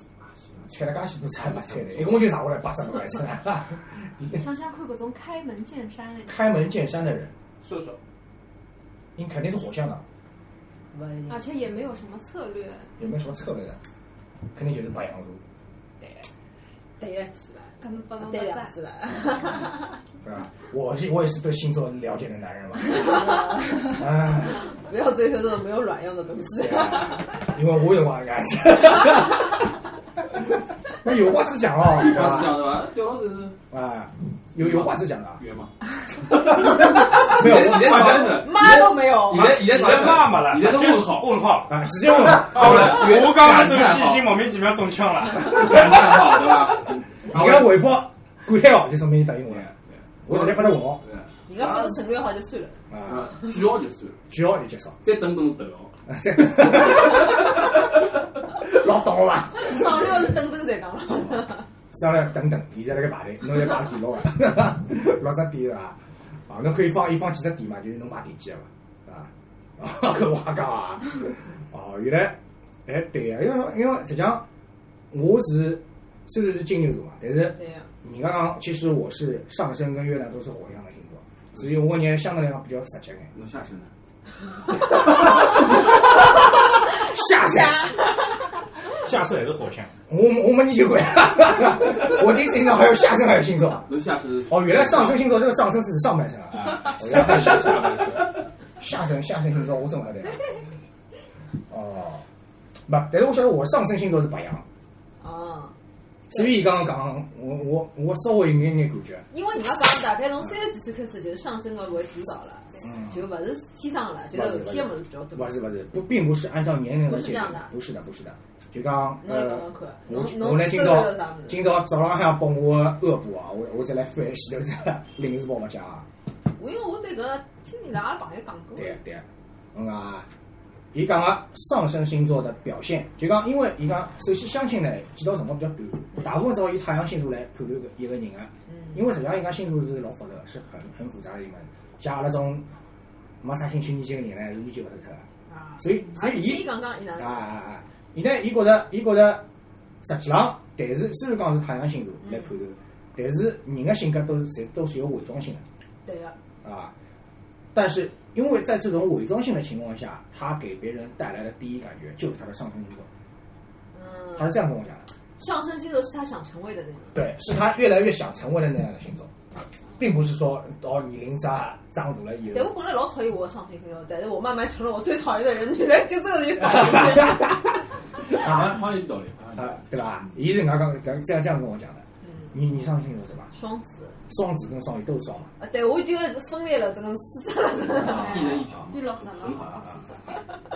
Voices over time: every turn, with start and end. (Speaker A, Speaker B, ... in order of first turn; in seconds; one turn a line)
Speaker A: 0.2-0.7
Speaker B: 0.7-4.4
Speaker A: 1.4-2.3
Speaker C: 4.2-6.5
Speaker B: 6.3-7.3
Speaker A: 7.6-8.0
Speaker B: 9.2-10.0
Speaker D: 10.9-11.5
Speaker C: 11.3-12.9
Speaker B: 13.0-13.8
Speaker B: 14.5-15.4
Speaker C: 16.0-16.3
Speaker D: 17.0-19.9
Speaker C: 17.8-18.8
Speaker B: 20.2-24.6
Speaker D: 22.8-24.0
Speaker D: 24.6-27.2
Speaker B: 26.5-29.7
Speaker B: 31.0-32.7
Speaker A: 31.9-33.6
Speaker B: 33.7-35.4
Speaker A: 34.6-35.7
Speaker A: 36.3-41.4
Speaker B: 36.4-38.5
Speaker D: 38.1-39.6
Speaker E: 39.3-41.8
Speaker B: 41.7-43.2
Speaker A: 42.2-44.4
Speaker E: 42.4-46.1
Speaker A: 45.4-47.9
Speaker B: 47.2-49.7
Speaker A: 49.5-52.0
Speaker B: 50.2-51.0
Speaker D: 51.5-52.8
Speaker B: 52.9-53.3
Speaker A: 53.0-54.2
Speaker B: 54.3-55.0
Speaker A: 55.0-55.9
Speaker B: 56.1-57.8
Speaker B: 58.5-60.1
Speaker D: 59.5-61.6
Speaker B: 61.9-74.5
Speaker B: 75.1-83.3
Speaker D: 77.5-77.9
Speaker A: 81.5-81.9
Speaker A: 83.3-83.9
Speaker B: 85.0-85.8
Speaker B: 86.9-87.9
Speaker E: 89.0-89.9
Speaker B: 90.1-93.9
Speaker A: 93.8-95.3
Speaker B: 94.5-100.4
Speaker A: 96.6-98.2
Speaker B: 101.7-102.2
Speaker B: 102.9-104.7
Speaker D: 105.2-105.7
Speaker B: 106.3-109.2
Speaker D: 109.3-115.5
Speaker B: 112.8-113.2
Speaker B: 114.3-126.1
Speaker D: 117.0-117.7
Speaker D: 119.2-121.7
Speaker D: 126.5-129.0
Speaker B: 128.7-130.3
Speaker B: 130.9-142.7
Speaker D: 138.7-138.9
Speaker B: 143.4-145.2
Speaker D: 145.5-147.4
Speaker B: 145.8-149.4
Speaker B: 150.0-155.6
Speaker D: 152.2-152.5
Speaker D: 156.0-156.3
Speaker B: 156.6-156.9
Speaker B: 157.7-163.1
Speaker D: 163.9-164.6
Speaker B: 164.3-165.1
Speaker D: 165.4-167.2
Speaker B: 167.1-169.3
Speaker B: 170.0-172.7
Speaker D: 172.5-177.5
Speaker B: 176.6-178.8
Speaker A: 178.2-180.2
Speaker B: 179.5-183.5
Speaker D: 182.2-182.5
Speaker D: 183.5-184.2
Speaker B: 184.3-185.5
Speaker D: 185.6-188.4
Speaker B: 188.0-188.6
Speaker A: 188.0-190.0
Speaker C: 188.0-190.4